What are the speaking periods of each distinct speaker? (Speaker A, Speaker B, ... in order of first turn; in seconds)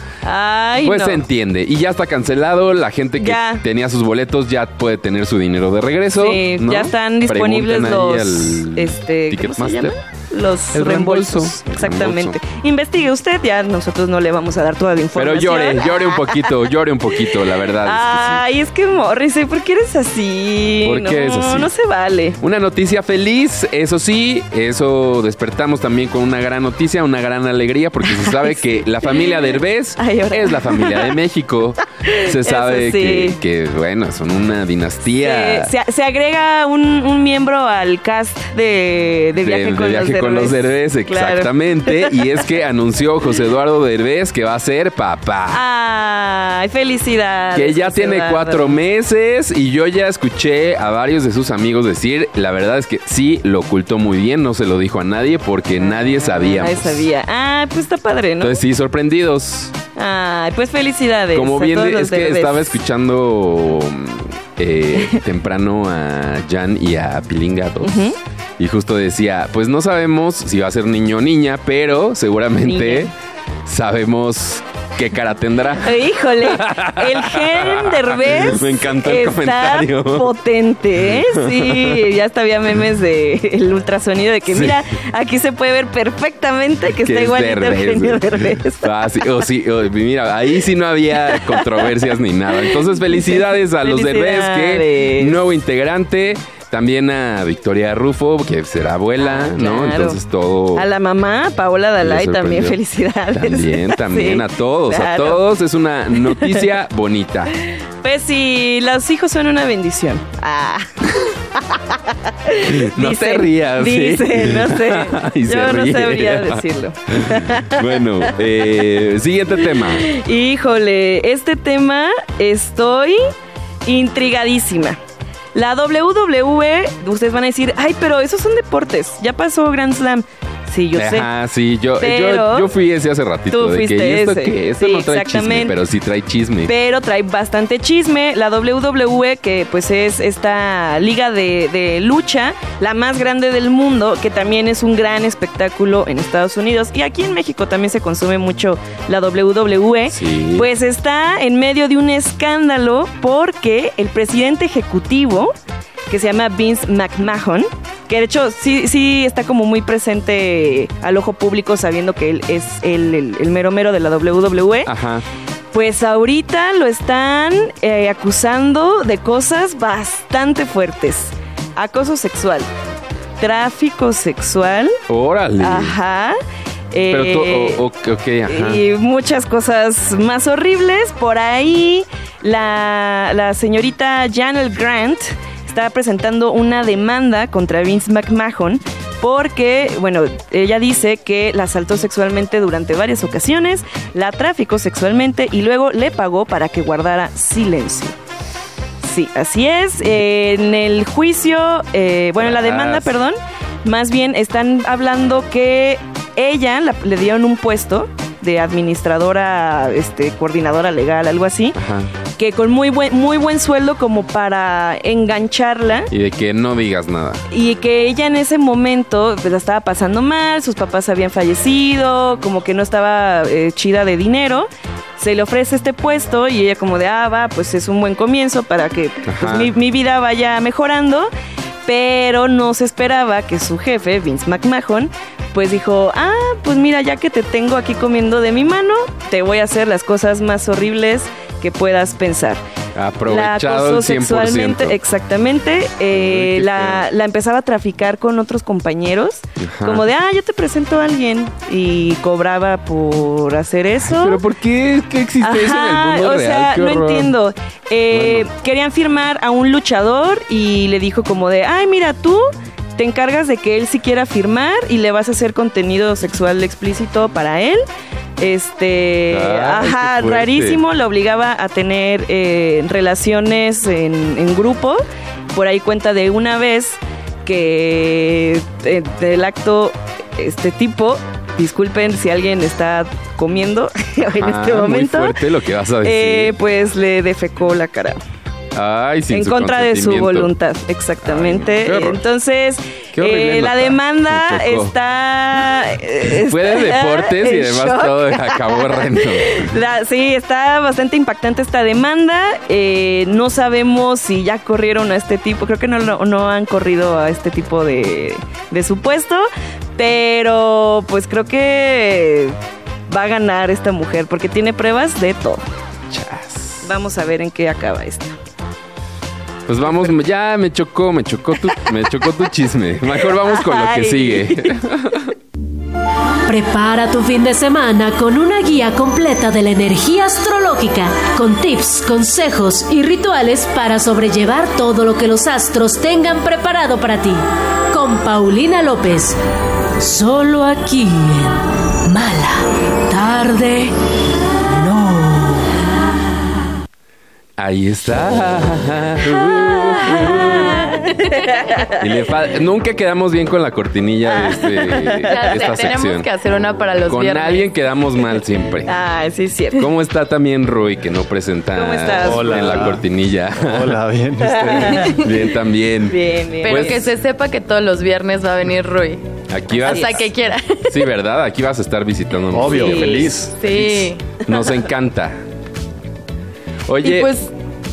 Speaker A: 0.2-1.2, 3.2-3.6, 6.2-16.5, 17.3-22.4, 28.1-31.1, 32.0-33.4, 35.2-42.2, 45.5-48.8, 55.8-58.6, 59.9-62.7, 67.8-68.2, 72.6-73.1, 75.8-89.1, 91.2-92.0, 92.6-95.4, 99.2-100.2, 100.7-105.4, 106.2-106.7, 108.0-118.0, 119.6-123.2, 123.8-125.0, 125.5-131.3, 132.0-132.7, 133.5-135.8, 136.7-155.5, 156.1-164.9, 165.7-172.7, 173.4-175.0, 175.6-176.4, 176.9-177.8, 178.5-198.2, 199.0-211.8, 212.4-216.1, 217.5-231.3, 231.8-242.6, 243.3-254.4, 255.4-267.8, 268.4-275.0, 275.5-285.4, 286.0-288.2, 289.3-312.6, 313.1-315.6, 316.8-318.4, 323.2-324.8, 349.4-352.0, 354.4-355.3, 358.9-359.9, 361.7-362.9, 364.7-365.2, 366.1-367.0, 372.6-373.3
Speaker B: 0.8-9.9, 10.7-12.4, 15.2-18.4, 20.8-21.7, 22.4-35.7, 39.4-45.6, 47.5-57.0, 58.4-59.8, 61.3-73.1, 73.7-80.3, 81.1-82.0, 84.5-84.8, 87.0-100.9, 102.0-102.8, 103.3-107.5, 112.6-120.1, 130.9-136.7, 150.1-150.7, 164.8-165.2, 175.1-175.9, 177.1-178.8, 202.4-203.1, 211.8-212.1, 216.1-217.4, 229.2-229.7, 242.9-244.9, 246.1-247.0, 249.6-250.1, 254.1-257.3, 258.1-258.5, 269.3-270.8, 284.3-286.5, 288.7-290.5, 291.2-292.2, 293.1-294.9, 296.3-299.7, 316.1-316.8, 319.7-325.3, 347.6-351.1, 351.9-356.3, 357.0-358.9, 359.7-364.0, 364.6-367.1, 369.5-370.3, 370.9-375.4, 376.9-377.5
Speaker C: 326.5-339.4, 340.0-343.9, 344.6-345.8
Speaker D: 355.2-357.7, 366.6-369.2, 369.8-371.0, 373.6-374.2, 377.0-377.5
Speaker E: 362.1-363.0, 363.6-365.2, 372.5-373.9